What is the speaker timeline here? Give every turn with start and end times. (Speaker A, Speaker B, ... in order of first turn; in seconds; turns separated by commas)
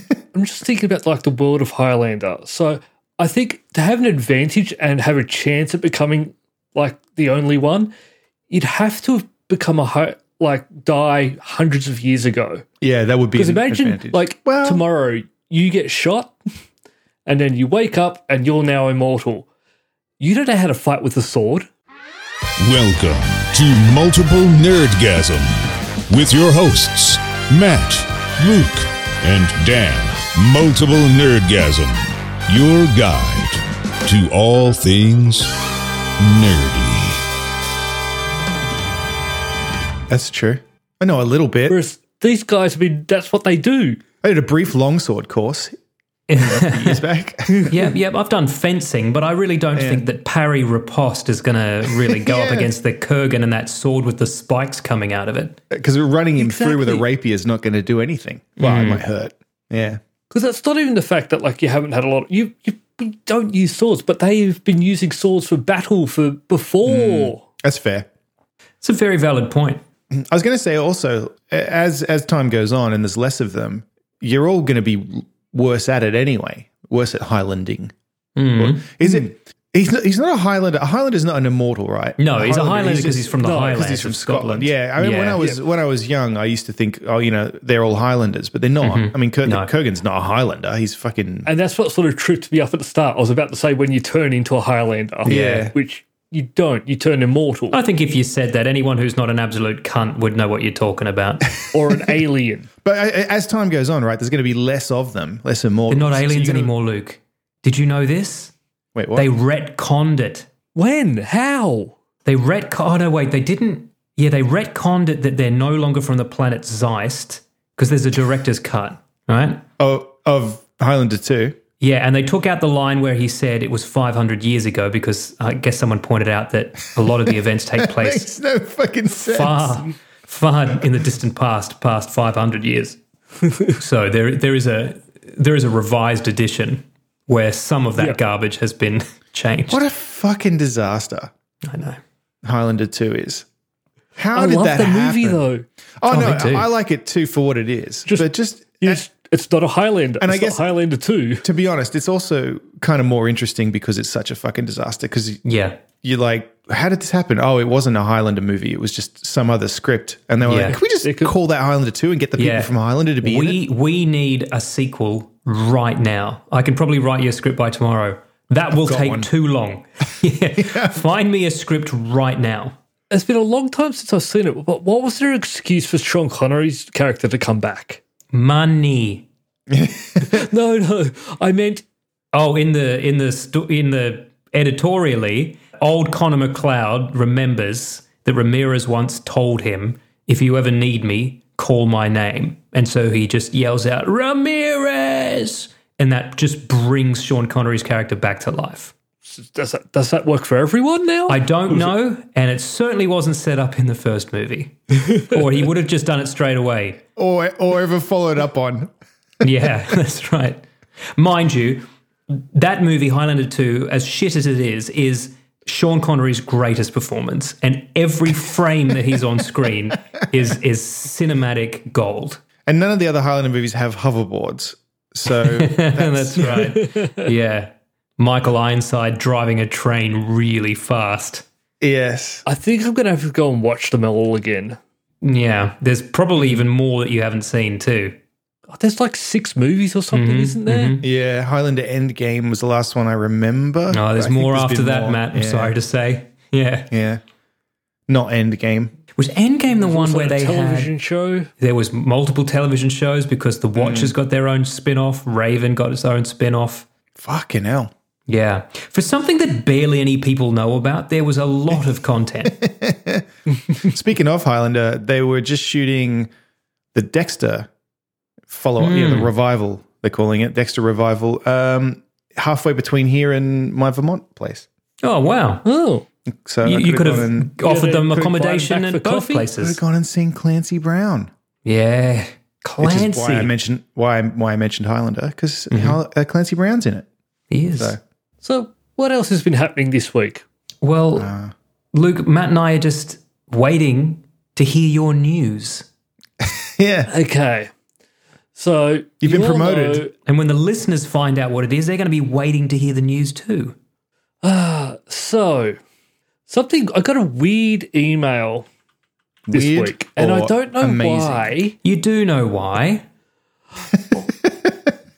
Speaker A: 0.3-7.9, Speaker A: 8.5-12.6, Speaker B: 12.8-14.8, Speaker A: 13.3-16.3, Speaker A: 17.2-19.5, Speaker A: 20.2-21.7, Speaker C: 22.6-35.5, Speaker C: 36.2-37.2, Speaker B: 40.1-41.8, Speaker A: 41.7-44.0, Speaker B: 44.2-45.7, Speaker D: 46.3-47.0, Speaker B: 46.4-47.8, Speaker D: 47.7-55.6, Speaker B: 49.8-50.0, Speaker B: 52.0-52.7, Speaker B: 55.7-60.0, Speaker A: 56.4-57.0, Speaker D: 58.6-59.0, Speaker A: 60.3-67.4, Speaker B: 66.8-68.1, Speaker D: 68.8-69.8, Speaker B: 70.1-77.9, Speaker D: 78.3-79.3, Speaker B: 78.6-91.5, Speaker D: 82.2-85.5, Speaker A: 83.4-83.8, Speaker D: 88.8-89.7, Speaker A: 91.5-97.8, Speaker B: 95.2-95.7, Speaker D: 95.2-95.6, Speaker D: 97.7-101.5, Speaker A: 101.7-102.7, Speaker B: 102.8-106.7, Speaker D: 105.9-108.5, Speaker B: 108.9-109.3, Speaker D: 109.1-110.5, Speaker A: 110.7-112.0, Speaker D: 112.2-119.6, Speaker B: 119.8-121.6, Speaker D: 121.8-128.3, Speaker B: 127.0-129.8, Speaker D: 129.2-133.0, Speaker A: 133.4-133.7, Speaker D: 133.7-139.8, Speaker B: 139.7-141.3, Speaker D: 141.6-142.0, Speaker B: 142.4-143.4, Speaker B: 144.2-145.4, Speaker A: 144.3-145.6, Speaker B: 146.0-149.0, Speaker D: 146.1-146.7, Speaker A: 148.1-151.4, Speaker B: 150.2-150.6, Speaker B: 151.4-163.6, Speaker D: 155.4-155.8, Speaker D: 160.4-160.8, Speaker A: 160.8-161.3, Speaker D: 162.4-172.8, Speaker B: 168.7-169.3, Speaker B: 170.6-171.0, Speaker A: 173.1-178.0, Speaker D: 178.3-179.3, Speaker B: 179.7-180.4, Speaker A: 180.2-181.8, Speaker D: 182.3-198.9, Speaker A: 199.3-201.9, Speaker D: 201.3-207.0, Speaker A: 205.0-205.3, Speaker B: 207.2-208.9, Speaker D: 209.4-210.6, Speaker D: 211.1-222.4, Speaker B: 222.7-226.6, Speaker D: 225.3-231.4, Speaker A: 226.4-227.3, Speaker B: 231.8-232.4, Speaker A: 232.4-234.8, Speaker D: 235.2-238.2, Speaker A: 238.7-241.0, Speaker D: 240.1-241.0, Speaker B: 241.0-245.8, Speaker D: 243.9-246.9, Speaker B: 246.9-247.2, Speaker B: 248.1-248.9, Speaker D: 249.2-250.9, Speaker A: 249.7-251.5, Speaker D: 251.6-256.9, Speaker B: 253.8-254.1, Speaker B: 257.1-257.9, Speaker D: 258.3-262.6, Speaker B: 262.5-266.3, Speaker B: 266.9-267.7, Speaker B: 268.5-274.6, Speaker D: 268.8-269.3, Speaker D: 275.0-275.6, Speaker A: 275.6-276.1, Speaker B: 276.3-277.5, Speaker D: 276.6-279.8, Speaker A: 277.6-279.5, Speaker B: 279.6-281.3, Speaker D: 281.6-283.5, Speaker B: 282.8-287.1, Speaker D: 285.7-286.0, Speaker D: 287.5-287.9, Speaker A: 288.4-290.4, Speaker D: 290.8-291.3, Speaker B: 291.1-291.5, Speaker D: 291.9-295.9, Speaker B: 296.4-297.1, Speaker A: 297.1-297.7, Speaker A: 298.5-300.1, Speaker B: 299.2-300.0, Speaker D: 300.2-303.7, Speaker A: 304.4-305.8, Speaker A: 306.5-308.7, Speaker B: 309.5-311.5, Speaker A: 309.5-311.8, Speaker D: 311.8-313.0